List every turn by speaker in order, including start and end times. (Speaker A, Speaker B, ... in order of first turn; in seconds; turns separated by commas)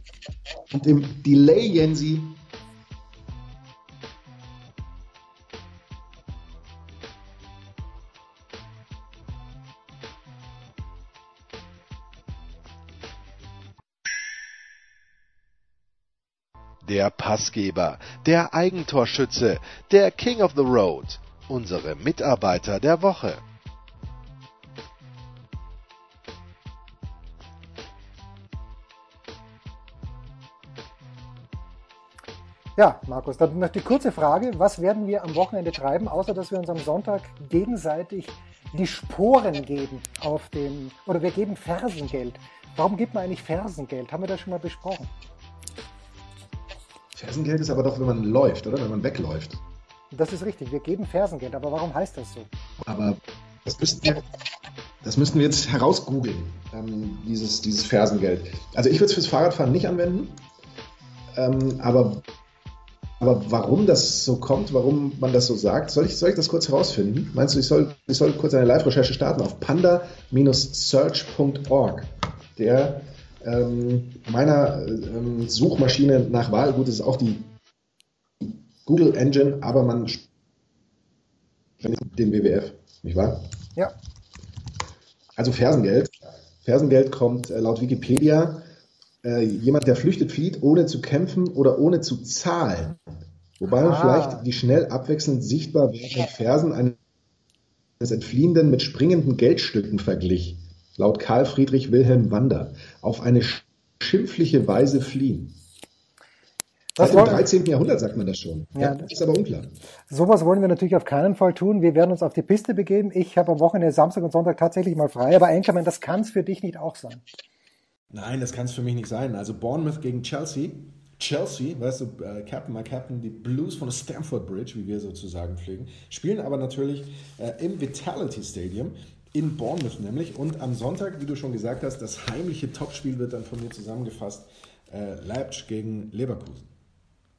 Speaker A: 0.7-2.4, Speaker B: 16.8-23.4, Speaker C: 32.8-45.1, Speaker A: 47.1-49.6, Speaker C: 50.1-52.5, Speaker A: 52.8-54.2, Speaker A: 55.0-60.4, Speaker A: 61.3-62.2, Speaker A: 63.2-77.5, Speaker A: 78.4-80.2, Speaker A: 81.8-83.5, Speaker A: 85.3-88.7, Speaker A: 89.2-93.0, Speaker A: 93.6-97.0, Speaker C: 93.6-94.5, Speaker A: 98.0-105.5, Speaker C: 107.0-107.5, Speaker A: 107.0-109.7, Speaker C: 108.8-109.1, Speaker C: 110.1-117.2, Speaker A: 118.1-136.7